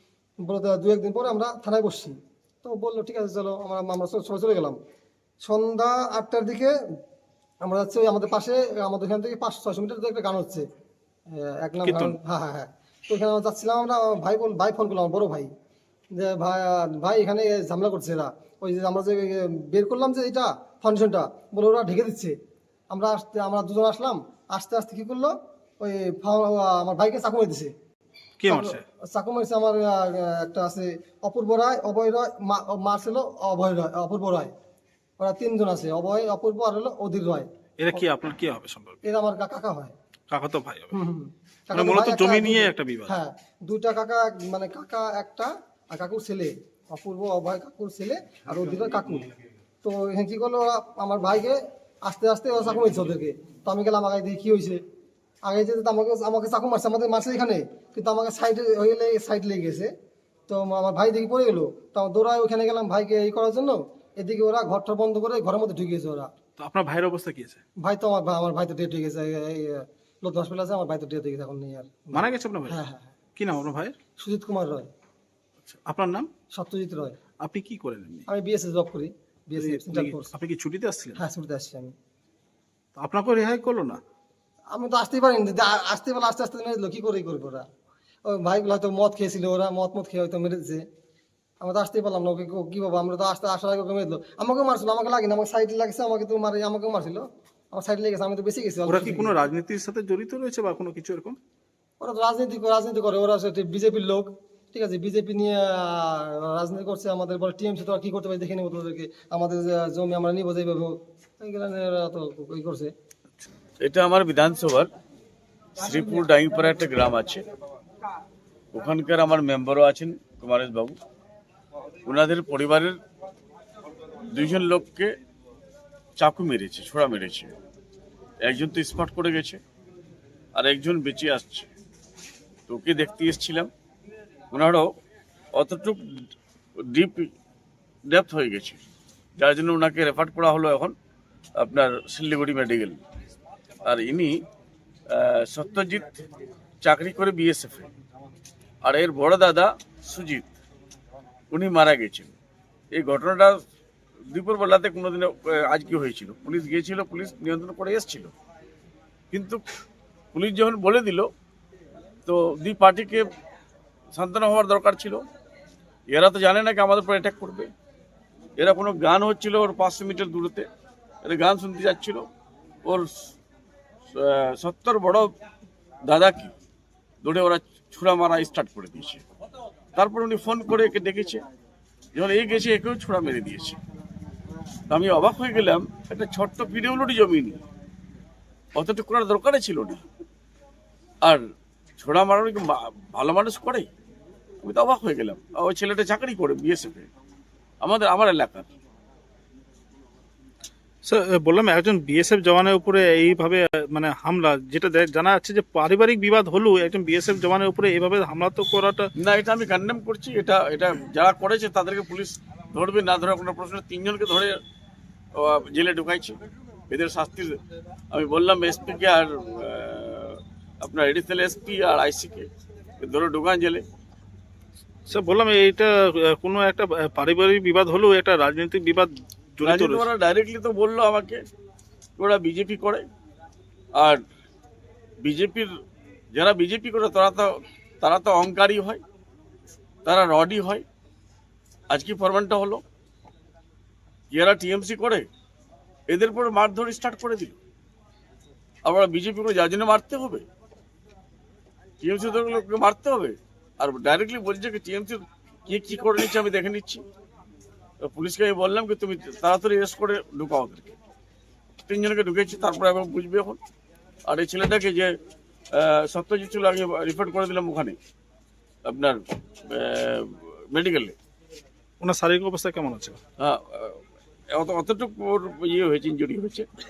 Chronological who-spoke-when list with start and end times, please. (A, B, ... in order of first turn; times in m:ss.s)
0:00.4-0:04.8 A
0:05.4-0:06.8 A
0:07.6-0:10.7 A
0:11.3-0:15.5 A
0:11.8-0:12.2 B
0:16.1-0:22.4 A
0:22.9-0:27.7 A
0:28.4-0:28.8 B
0:28.5-0:34.5 A
0:35.2-0:38.1 A
0:37.8-0:39.0 B
0:39.0-0:39.9 A
0:40.3-0:40.9 B
0:40.9-0:49.3 A
0:41.7-0:43.2 B
0:49.8-0:54.8 A
0:55.4-0:59.9 A
1:00.5-1:06.3 A
1:06.6-1:07.6 B
1:07.8-1:13.0 A
1:12.1-1:12.8 B
1:13.4-1:13.9 B
1:14.2-1:14.9 A
1:15.6-1:16.3 B
1:16.5-1:17.2 A
1:17.4-1:18.2 B
1:18.3-1:20.3 A
1:19.6-1:21.2 B
1:21.2-1:21.9 A
1:23.0-1:24.0 B
1:24.7-1:27.7 A
1:28.2-1:30.8 A
1:31.6-1:39.3 A
1:38.9-1:41.4 B
1:42.0-1:52.9 A
1:53.8-1:54.9 C
1:55.8-1:57.4 C
1:58.7-2:01.0 C
2:02.0-2:03.0 C
2:04.3-2:05.1 C
2:06.2-2:07.5 C
2:08.4-2:09.6 C
2:10.6-2:11.7 C
2:12.7-2:13.7 C
2:14.5-2:14.9 C
2:15.5-2:16.0 C
2:16.8-2:17.3 C
2:18.1-2:18.8 C
2:19.4-2:20.9 C
2:21.6-2:23.0 C
2:23.8-2:24.3 C
2:25.1-2:26.1 C
2:26.8-2:27.9 C
2:28.8-2:30.5 C
2:31.5-2:32.3 C
2:32.9-2:33.6 C
2:34.3-2:38.3 C
2:39.3-2:39.6 C
2:40.3-2:41.3 C
2:42.2-2:43.2 C
2:44.1-2:45.2 C
2:46.1-2:47.7 C
2:48.6-2:50.6 C
2:51.2-2:52.2 C
2:52.8-2:53.3 C
2:54.1-2:55.3 C
2:56.1-2:56.5 C
2:57.2-2:59.2 C
3:00.0-3:01.4 C
3:02.2-3:03.8 C
3:04.9-3:07.6 C
3:08.8-3:10.0 C
3:12.0-3:13.9 C
3:14.6-3:17.1 C
3:17.8-3:18.7 C
3:21.0-3:29.1 B
3:29.2-3:34.6 C
3:35.3-3:36.4 C
3:36.9-3:37.6 C
3:38.1-3:42.5 C
3:43.0-3:43.8 C
3:45.1-3:50.1 B
3:49.6-3:51.4 C
3:52.2-3:53.0 C
3:55.2-3:55.7 C
3:56.3-3:57.5 C
3:58.0-3:59.0 C
4:00.0-4:00.8 C
4:01.9-4:02.8 C
4:04.3-4:05.2 C
4:06.1-4:07.6 C
4:08.8-4:10.4 C
4:12.0-4:17.0 C
4:18.0-4:20.9 C
4:21.9-4:23.6 C
4:24.3-4:25.1 C
4:25.7-4:28.0 C
4:28.8-4:31.1 C
4:32.0-4:33.2 B
4:33.4-4:34.0 C
4:34.5-4:36.7 C